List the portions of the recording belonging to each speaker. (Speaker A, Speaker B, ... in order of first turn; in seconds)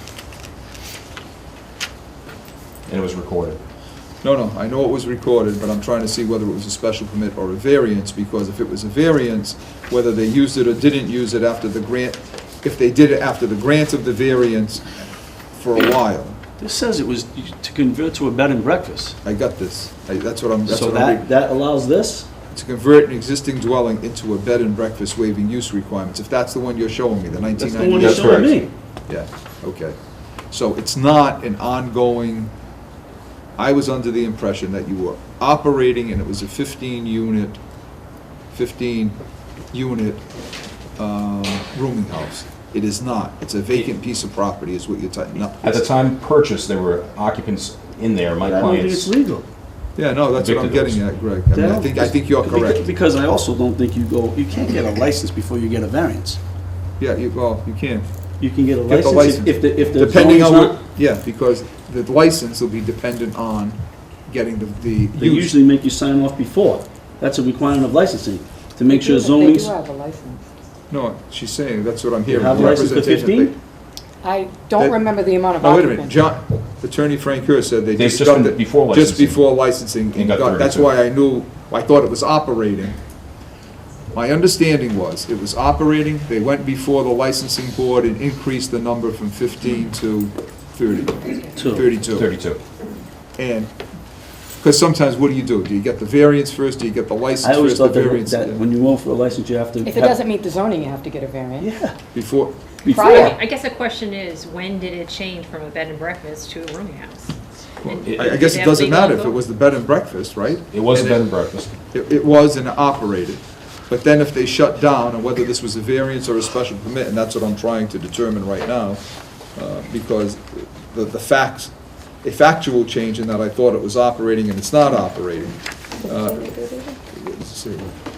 Speaker A: 2.9-3.6, 27.9-28.6, 45.6-49.1, 50.4-51.0, 78.0-79.5, 80.1-80.9, 92.1-92.6, 110.7-111.7
Speaker B: 4.2-16.4, 19.2-21.2, 22.5-30.0, 30.5-32.5, 33.6-37.6, 38.5-40.2, 41.0-45.9, 50.0-52.9, 57.0-58.1, 58.9-65.5, 70.9-73.5, 75.6-83.0, 84.1-92.3, 93.4-93.7, 94.6-98.6, 102.1-102.7, 107.8-126.5, 127.1-128.0
Speaker C: 16.6-19.2, 20.7-22.3, 27.5-28.7, 48.4-49.5, 51.5-56.4, 58.4-60.8, 65.2-69.8, 72.3-73.6, 91.6-91.9, 97.4-100.2, 101.6-102.0, 102.8-103.4
Speaker D: 68.9-70.5, 74.2-76.2, 99.8-101.7, 102.9-103.3, 126.0-127.0
Speaker E: 103.0-107.3, 107.9-109.3